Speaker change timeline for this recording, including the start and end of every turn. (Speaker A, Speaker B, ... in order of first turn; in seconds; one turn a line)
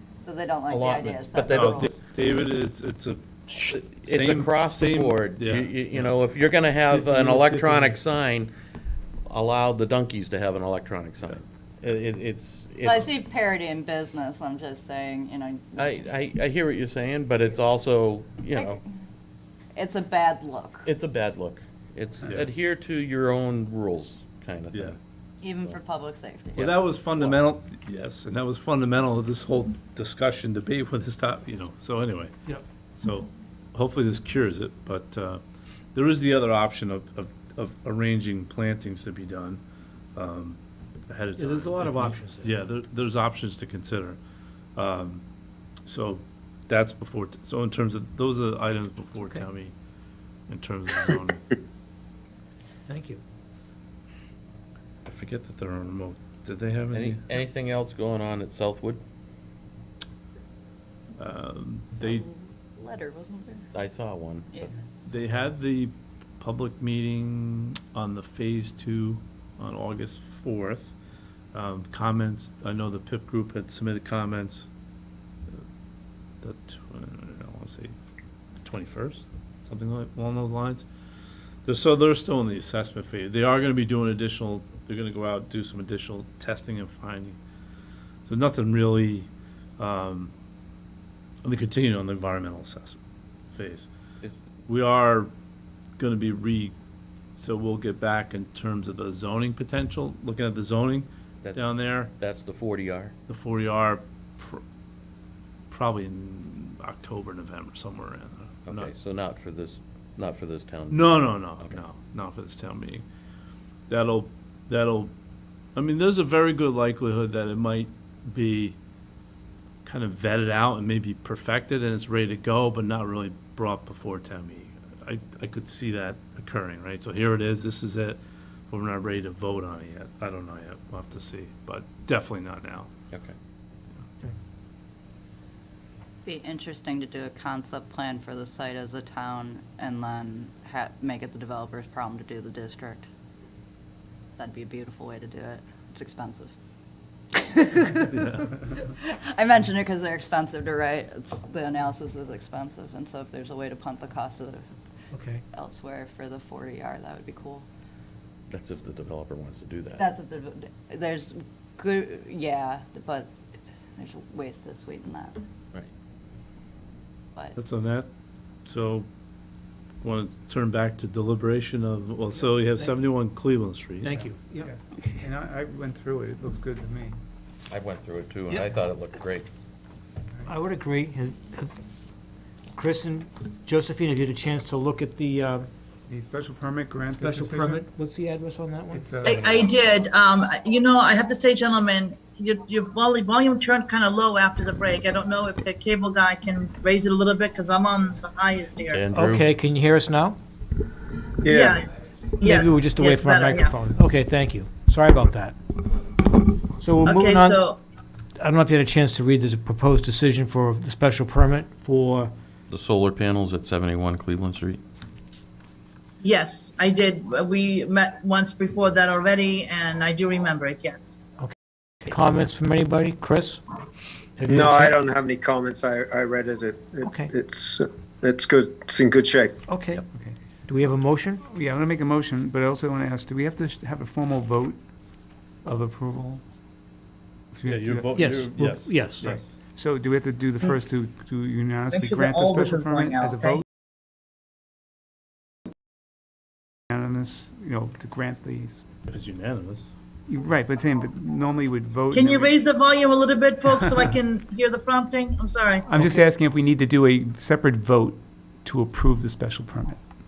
Speaker A: 0.2-1.9
Speaker B: 0.7-1.9
Speaker C: 1.5-6.0
Speaker B: 3.7-8.5
Speaker D: 7.4-7.8
Speaker B: 9.3-13.1
Speaker A: 12.8-16.2
Speaker B: 15.8-18.8
Speaker A: 18.6-18.8
Speaker A: 19.8-20.9
Speaker B: 20.9-25.0
Speaker C: 24.7-25.0
Speaker A: 25.4-26.8
Speaker C: 26.6-32.3
Speaker C: 33.0-35.4
Speaker C: 35.9-39.6
Speaker C: 40.1-44.2
Speaker D: 41.4-42.6
Speaker C: 44.8-45.2
Speaker C: 45.9-49.7
Speaker C: 50.5-51.5
Speaker D: 52.9-53.2
Speaker C: 55.0-57.2
Speaker B: 56.9-59.0
Speaker C: 61.2-62.2
Speaker A: 62.0-63.7
Speaker B: 63.7-64.5
Speaker C: 65.1-70.9
Speaker C: 71.5-74.7
Speaker C: 76.4-78.0
Speaker C: 78.6-80.9
Speaker C: 81.7-87.4
Speaker C: 88.2-90.3
Speaker C: 91.4-93.0
Speaker C: 93.5-93.9
Speaker C: 94.7-95.3
Speaker C: 96.0-96.8
Speaker C: 97.4-102.1
Speaker B: 101.4-103.1
Speaker C: 103.3-104.6
Speaker C: 105.7-108.9
Speaker B: 108.7-111.8
Speaker C: 110.9-113.0
Speaker C: 113.9-115.1
Speaker C: 115.8-118.8
Speaker C: 119.8-132.9
Speaker A: 136.2-143.1
Speaker A: 144.4-146.5
Speaker A: 147.3-154.7
Speaker D: 155.1-155.4
Speaker A: 155.5-157.7
Speaker B: 158.5-160.1
Speaker A: 160.0-163.4
Speaker A: 164.0-165.4
Speaker C: 167.6-168.1
Speaker C: 168.7-169.1
Speaker C: 170.0-174.2
Speaker D: 174.0-174.7
Speaker E: 174.1-177.2
Speaker B: 177.7-179.5
Speaker D: 180.5-181.8
Speaker D: 182.8-185.7
Speaker E: 186.1-187.8
Speaker D: 187.1-189.5
Speaker E: 188.9-189.4
Speaker F: 189.2-199.1
Speaker B: 198.9-199.5
Speaker D: 199.1-200.4
Speaker G: 201.4-201.8
Speaker F: 201.5-201.9
Speaker F: 202.4-203.8
Speaker D: 202.4-205.6
Speaker D: 206.8-207.6
Speaker F: 207.0-207.8
Speaker D: 208.4-212.3
Speaker B: 212.7-214.8
Speaker F: 216.2-221.2
Speaker D: 221.4-223.6
Speaker D: 224.4-225.0
Speaker G: 224.5-229.6
Speaker D: 227.0-227.3
Speaker D: 229.7-230.0
Speaker E: 230.1-230.9
Speaker D: 230.7-231.4
Speaker E: 231.4-234.8
Speaker E: 235.6-236.4
Speaker E: 237.5-238.2
Speaker C: 237.7-239.6
Speaker D: 238.2-239.4
Speaker E: 239.2-243.7
Speaker F: 241.9-243.6
Speaker E: 246.9-248.8
Speaker C: 249.1-249.9
Speaker E: 250.3-252.6
Speaker F: 252.1-256.1
Speaker E: 253.7-254.1
Speaker E: 255.9-260.0